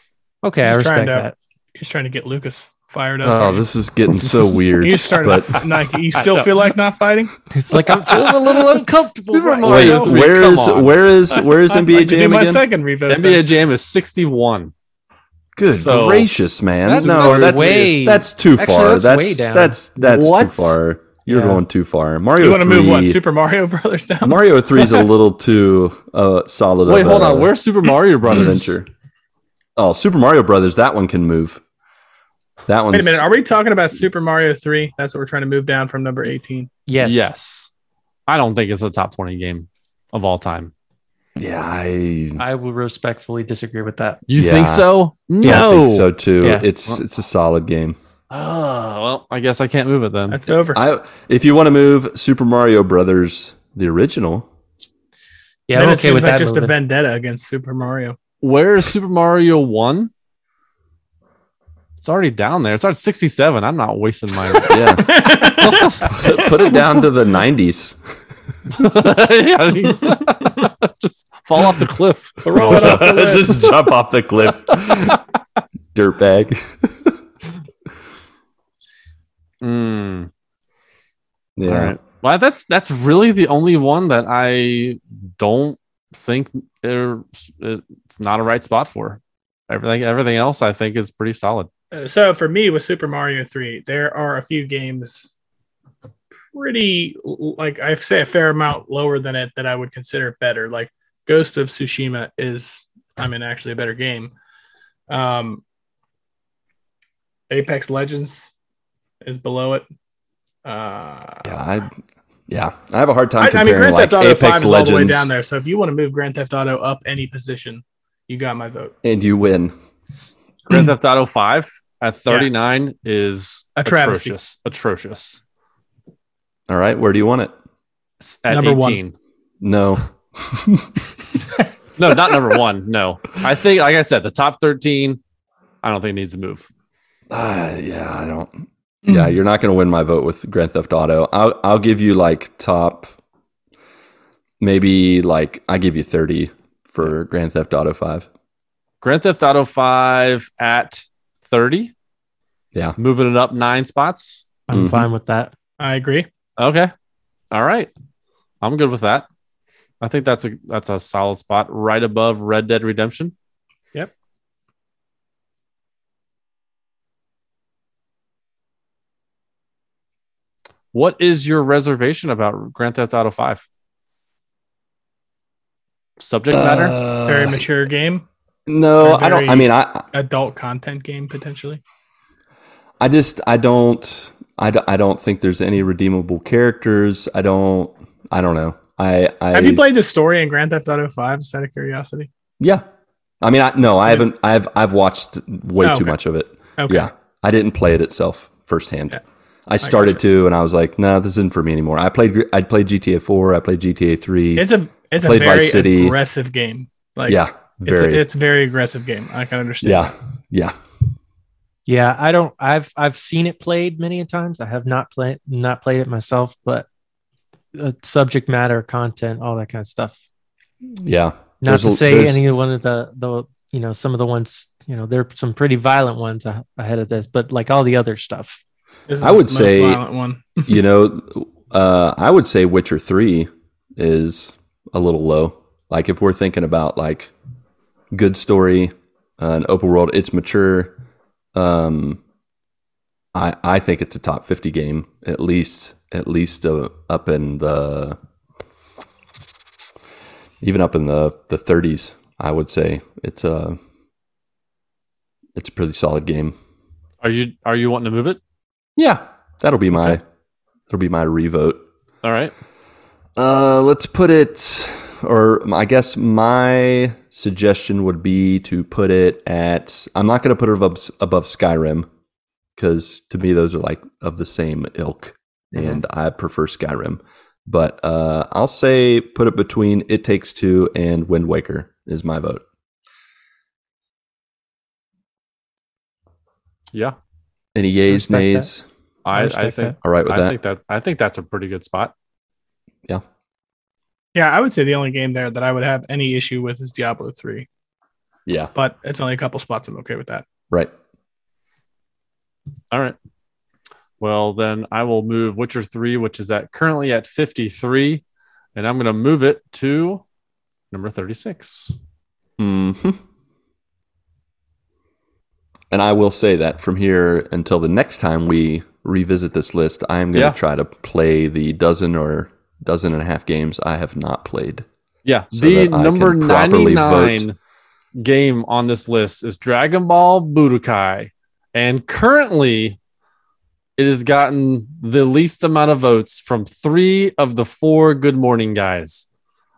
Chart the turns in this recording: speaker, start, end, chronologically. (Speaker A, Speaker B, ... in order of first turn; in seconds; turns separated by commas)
Speaker A: 0.4-1.3, Speaker B: 0.6-3.6, Speaker C: 3.2-5.6, Speaker B: 4.8-7.3, Speaker A: 7.5-10.2, Speaker D: 7.8-11.0, Speaker C: 9.6-12.6, Speaker B: 11.4-13.4, Speaker D: 13.1-14.7, Speaker C: 15.6-23.2, Speaker D: 15.7-16.3, Speaker D: 16.8-17.9, Speaker A: 16.8-19.8, Speaker D: 20.0-20.8, Speaker A: 21.3-21.6, Speaker B: 22.4-25.1, Speaker C: 24.2-27.5, Speaker D: 26.8-28.8, Speaker C: 28.3-28.9, Speaker C: 29.8-31.6, Speaker C: 32.7-33.2, Speaker B: 32.9-36.7, Speaker A: 36.9-37.3, Speaker D: 37.0-37.7, Speaker D: 38.3-40.7, Speaker C: 41.4-42.4, Speaker A: 42.4-44.2, Speaker D: 44.3-46.1, Speaker C: 44.4-44.9, Speaker C: 45.4-48.0, Speaker A: 46.4-46.7, Speaker D: 48.3-50.5, Speaker B: 50.3-50.8, Speaker C: 50.7-54.5, Speaker A: 55.7-56.7, Speaker B: 55.7-58.2, Speaker D: 58.4-60.1, Speaker D: 62.0-66.8, Speaker C: 64.7-65.1, Speaker B: 64.9-66.5, Speaker C: 66.2-68.0, Speaker D: 68.7-73.7, Speaker B: 72.4-73.5, Speaker C: 72.6-75.2, Speaker C: 75.9-77.2, Speaker D: 79.6-80.3, Speaker C: 81.6-82.0, Speaker D: 81.6-91.7, Speaker B: 91.9-95.3, Speaker B: 96.5-104.3, Speaker B: 105.1-105.6, Speaker B: 107.5-108.5, Speaker B: 109.2-109.9, Speaker B: 110.6-111.5, Speaker C: 111.4-111.9, Speaker C: 112.5-115.3, Speaker B: 113.4-118.9, Speaker C: 119.0-119.7, Speaker D: 120.7-125.4, Speaker B: 123.8-124.3, Speaker C: 126.7-127.5, Speaker D: 128.2-129.1, Speaker B: 128.5-129.0, Speaker C: 129.6-131.0, Speaker D: 132.0-135.2, Speaker D: 135.8-136.7, Speaker C: 137.3-143.1, Speaker C: 144.6-148.3, Speaker D: 149.0-151.9, Speaker D: 153.0-154.5, Speaker A: 154.7-155.5, Speaker C: 154.7-155.1, Speaker B: 155.8-156.3, Speaker D: 156.6-156.9, Speaker D: 157.5-157.9, Speaker D: 158.6-159.2, Speaker D: 160.0-163.3, Speaker D: 170.9-173.6, Speaker D: 176.2-177.0, Speaker C: 176.5-177.7, Speaker B: 177.2-178.2, Speaker C: 178.7-180.1, Speaker B: 179.0-181.8, Speaker C: 183.0-189.8, Speaker B: 189.5-192.3, Speaker C: 193.4-204.7, Speaker B: 195.8-196.1, Speaker B: 196.8-197.1, Speaker B: 199.8-200.2, Speaker B: 204.6-210.1, Speaker C: 205.2-206.1, Speaker C: 207.3-208.2, Speaker C: 209.8-210.7, Speaker A: 211.9-216.8, Speaker A: 217.7-220.2, Speaker C: 221.0-222.4, Speaker A: 221.6-228.6, Speaker B: 229.1-230.8, Speaker C: 229.2-230.0, Speaker C: 230.7-237.3, Speaker C: 238.1-240.9, Speaker C: 241.5-242.2, Speaker C: 243.3-248.2, Speaker C: 250.6-253.8, Speaker C: 255.6-256.5, Speaker D: 257.2-258.4, Speaker C: 259.0-260.2, Speaker C: 260.9-261.8, Speaker D: 262.2-262.5, Speaker C: 263.4-272.1, Speaker C: 272.8-282.6, Speaker C: 287.7-288.8, Speaker A: 288.1-288.7, Speaker D: 289.2-292.1, Speaker A: 289.3-289.9, Speaker C: 290.0-290.5, Speaker B: 294.3-297.7, Speaker C: 298.5-298.7, Speaker B: 298.7-300.4, Speaker D: 304.2-308.2, Speaker D: 308.8-310.2, Speaker D: 310.9-311.9, Speaker C: 312.6-313.2, Speaker C: 315.9-324.9, Speaker D: 325.2-327.6, Speaker C: 325.5-327.4, Speaker D: 328.1-333.0, Speaker D: 334.0-339.2